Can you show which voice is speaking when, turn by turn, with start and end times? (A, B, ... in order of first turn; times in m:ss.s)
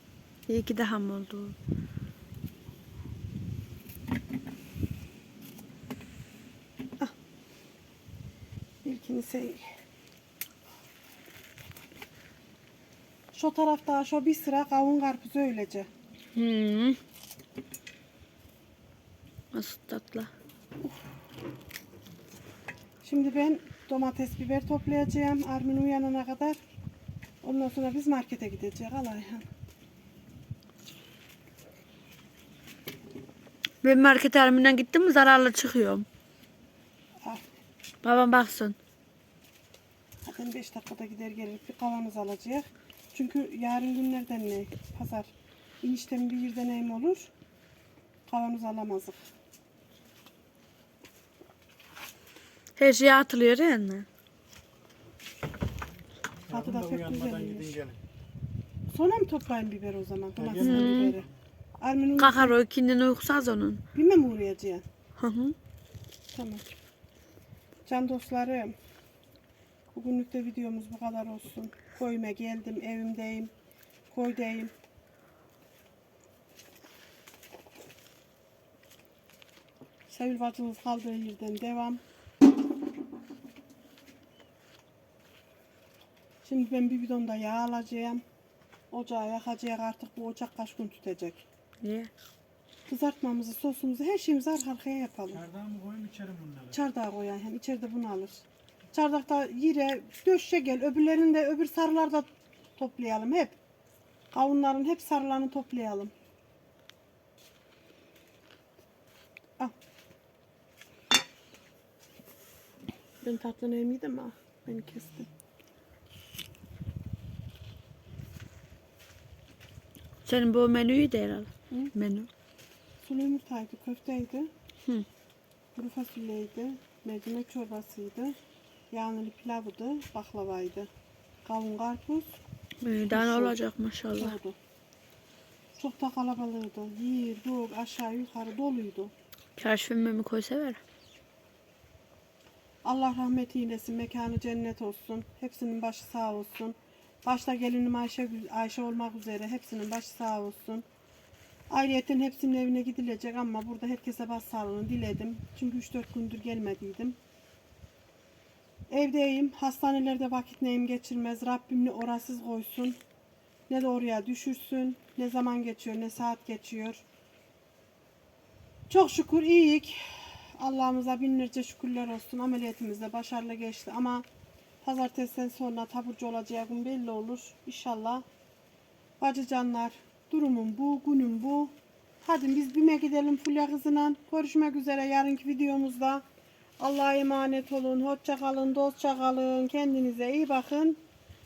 0:00.5-0:01.5 A
0:08.8-0:09.6 B
0:13.3-0:15.9 B
0:16.3-0:17.0 A
0:19.5-0:20.3 A
0:23.0-0:26.6 B
0:27.4-0:29.4 B
0:33.8-0:36.0 A
0:38.0-0:38.8 A
0:40.2-0:45.3 B
0:45.8-0:47.3 B
0:48.3-0:49.2 B
0:52.8-0:54.0 A
0:56.5-0:58.0 C
0:56.5-0:57.7 B
0:58.9-1:02.5 B
1:00.4-1:01.2 C
1:00.6-1:01.2 A
1:02.2-1:03.8 A
1:03.9-1:04.8 B
1:05.2-1:05.5 A
1:06.3-1:06.6 B
1:07.8-1:08.7 B
1:09.9-1:13.5 B
1:14.1-1:14.7 B
1:20.1-1:22.0 B
1:26.4-1:28.2 B
1:28.9-1:31.4 B
1:31.8-1:32.1 A
1:32.9-1:35.4 B
1:35.3-1:36.8 C
1:36.7-1:43.5 B
1:44.3-1:46.1 B
1:53.2-1:55.3 B
2:00.2-2:02.3 A
2:03.0-2:04.5 B
2:05.8-2:08.4 B
2:08.9-2:10.9 B
2:11.4-2:12.4 B
2:12.8-2:14.4 A
2:13.1-2:13.6 B
2:14.1-2:14.6 B
2:15.8-2:19.1 B
2:19.6-2:20.8 A
2:22.8-2:30.8 B
2:31.7-2:37.2 B
2:38.9-2:43.0 B
2:43.7-2:47.0 B
2:48.9-2:54.2 B
2:54.8-2:58.2 B
2:59.2-3:06.2 B
3:06.8-3:11.0 B